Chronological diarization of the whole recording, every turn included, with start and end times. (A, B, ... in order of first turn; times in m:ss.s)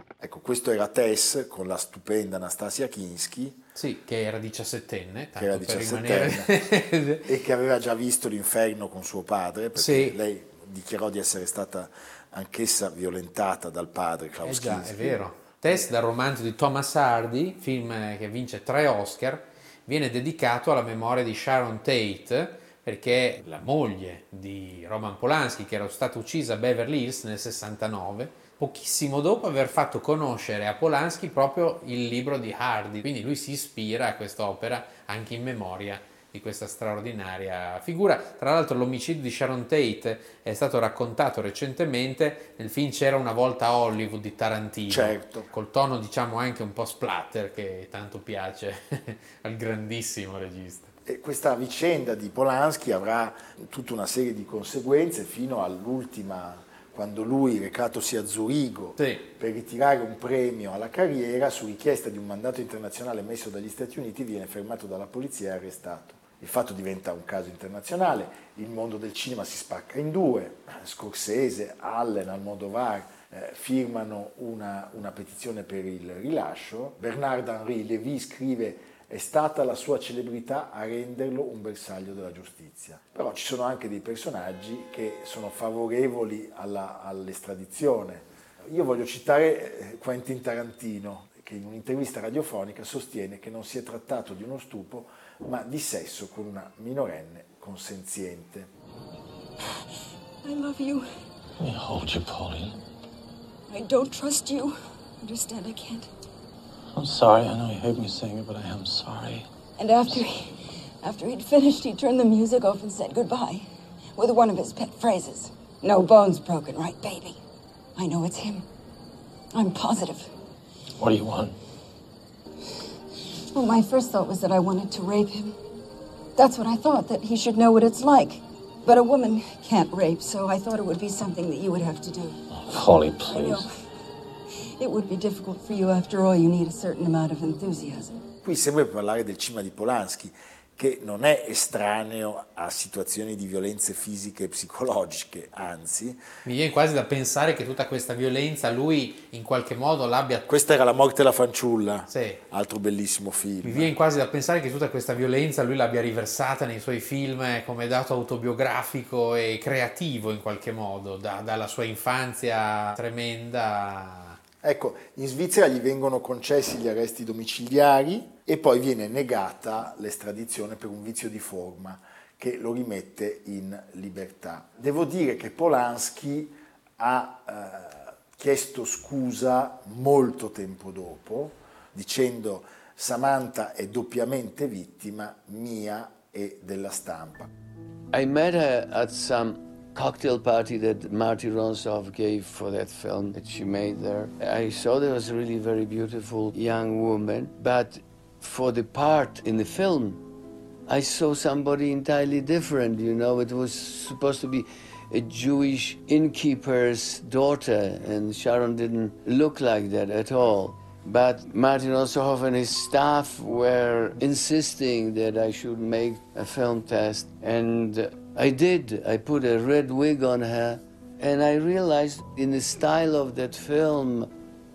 0:00.2-0:03.6 A
0:03.8-0:07.3 B
0:05.4-0:06.5 A
0:07.3-0:15.2 A
0:09.8-0:10.2 B
0:14.4-0:50.9 B
0:44.9-0:45.5 A
0:51.1-1:38.7 A
0:59.0-0:59.2 B
1:40.4-1:41.1 C
1:41.6-1:42.8 D
1:43.7-1:46.1 C
1:46.9-1:49.5 D
1:49.8-1:57.4 C
1:58.0-1:58.7 C
1:59.5-2:00.3 C
2:01.0-2:01.6 D
2:03.5-2:05.6 C
2:06.4-2:12.4 C
2:12.5-2:13.7 D
2:13.2-2:13.7 C
2:14.8-2:18.2 C
2:18.4-2:26.2 A
2:26.4-2:30.5 B
2:30.5-2:33.9 A
2:32.1-2:32.4 B
2:33.6-2:44.4 B
2:44.6-3:07.5 A
3:08.1-3:20.2 E
3:20.9-3:44.3 E